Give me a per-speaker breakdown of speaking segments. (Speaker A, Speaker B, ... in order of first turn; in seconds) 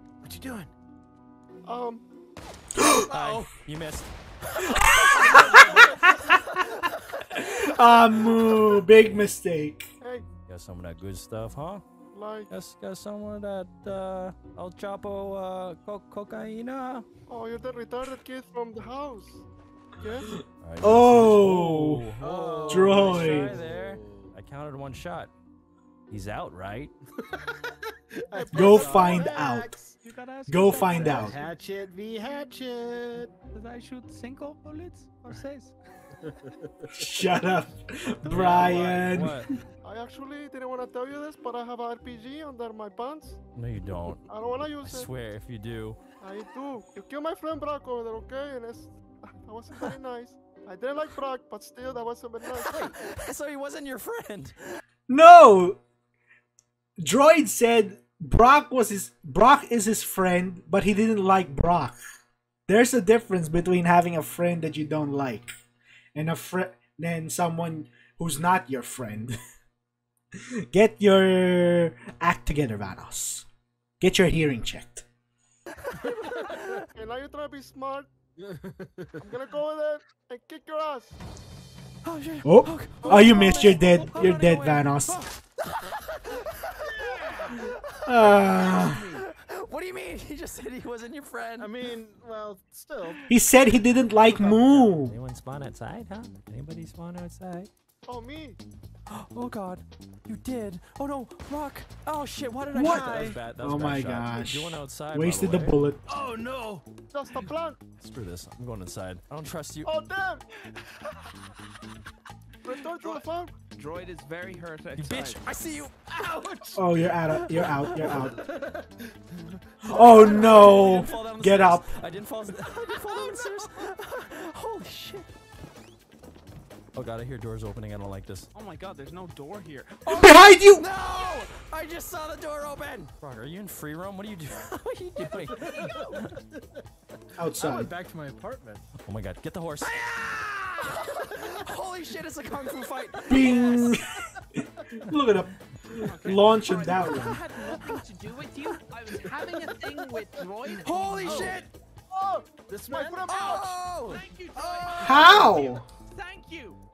Speaker A: 0.2-0.7, 3.1-3.5, 5.3-6.0, 22.2-24.3, 27.2-30.0, 30.5-33.3, 36.2-37.0, 38.6-38.8, 76.0-76.7, 78.4-79.2, 86.8-87.7, 91.6-93.2, 102.7-103.4, 106.1-106.8, 116.1-120.9, 135.5-136.8, 137.5-138.9, 140.1-141.6, 144.6-145.1, 149.3-149.6, 150.7-151.7, 152.7-153.4, 155.1-155.6
Speaker B: 1.6-2.0, 4.9-6.6, 10.0-10.2, 12.1-12.5, 17.3-19.4, 20.0-20.3, 28.3-29.3, 39.8-43.4, 44.3-45.1, 46.2-52.9, 76.9-78.1, 79.2-81.2, 83.0-83.9, 98.0-98.6, 107.1-107.8, 109.8-110.4, 112.6-113.5, 152.1-153.8
Speaker C: 2.8-3.0, 4.7-6.6, 7.3-9.9, 20.3-22.1, 22.7-23.5, 28.5-29.7, 30.5-31.3, 36.9-39.4, 55.1-55.8, 57.0-62.0, 62.7-65.5, 66.1-69.3, 70.3-73.5, 74.0-75.0, 82.4-85.2, 88.0-89.1, 93.3-95.2, 103.6-106.0, 116.7-118.4, 119.8-121.8, 130.1-130.8, 137.4-137.9, 143.3-144.1, 145.0-147.4, 155.0-155.8
Speaker D: 3.1-5.9, 8.7-9.3, 10.4-11.8, 12.5-17.1, 20.6-25.3, 26.1-26.9, 38.2-39.5, 43.5-46.0, 52.5-54.8, 75.8-76.9, 82.0-91.8, 94.2-97.7, 99.1-105.8, 108.0-109.9, 114.9-116.2, 117.3-118.2, 119.9-125.3, 126.9-128.5, 130.1-136.4, 139.0-144.0, 147.7-147.9, 150.8-151.7, 153.3-155.4
Speaker E: 30.0-31.5, 33.5-35.7, 110.7-111.1, 112.9-115.4, 128.5-130.4, 143.4-144.0, 145.9-151.6, 154.0-156.8